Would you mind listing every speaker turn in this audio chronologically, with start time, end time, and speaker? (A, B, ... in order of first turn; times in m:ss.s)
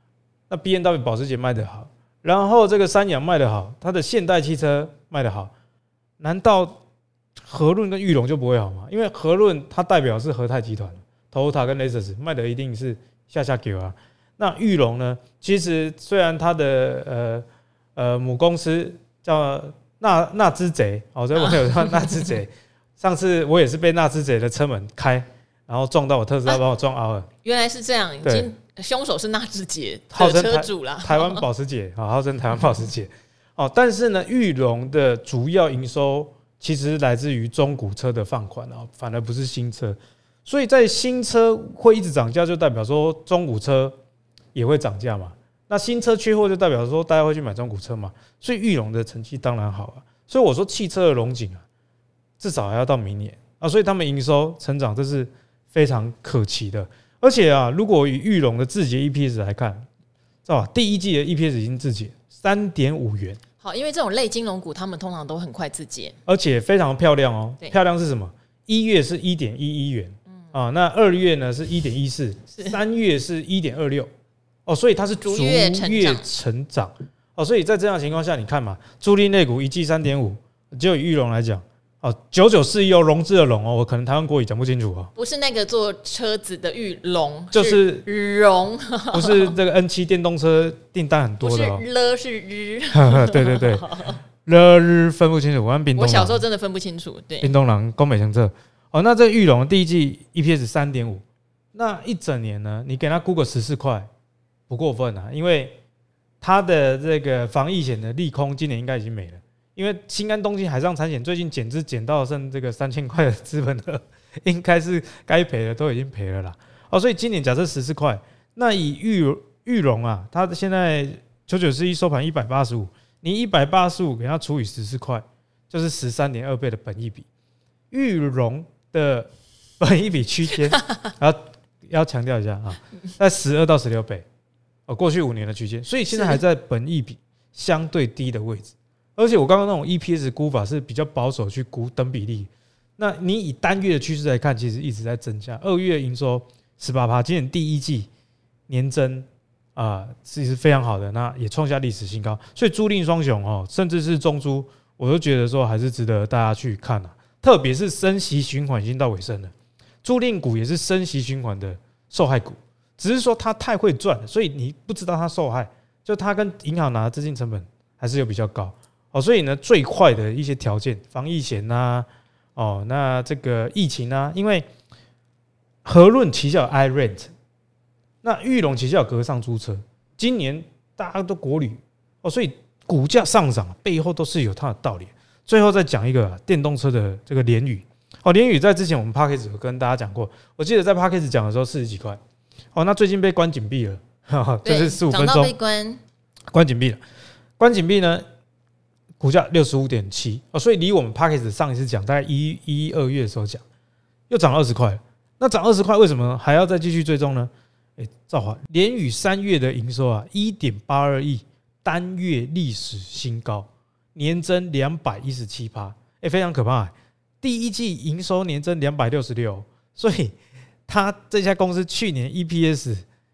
0:00.5-0:05.5 A
0:06.2-0:06.8 A
0:07.4-0:17.4 A
0:18.0-0:27.3 A
0:27.4-0:31.4 B
0:28.2-0:28.5 A
0:30.1-0:44.0 A
0:44.5-0:51.6 A
0:52.4-0:59.8 A
1:00.4-1:03.4 A
1:03.6-1:06.2 B
1:06.3-1:14.1 A
1:14.6-1:25.1 A
1:15.2-1:16.2 B
1:25.2-1:29.5 B
1:27.5-1:28.0 A
1:29.1-1:31.8 A
1:31.4-1:34.2 B
1:32.9-1:33.9 A
1:34.4-1:36.4 A
1:35.9-1:37.5 B
1:37.4-1:44.1 A
1:44.7-1:45.8 A
1:46.4-2:07.3 A
2:07.9-2:14.2 A
2:14.9-2:28.1 A
2:28.7-2:54.6 A
2:55.8-2:57.3 A
2:58.2-3:12.2 A
3:12.7-3:15.5 A
3:14.6-3:16.0 B
3:16.5-3:17.0 A
3:17.6-3:18.2 A
3:19.2-3:23.6 A
3:24.3-3:40.4 A
3:40.9-3:43.0 A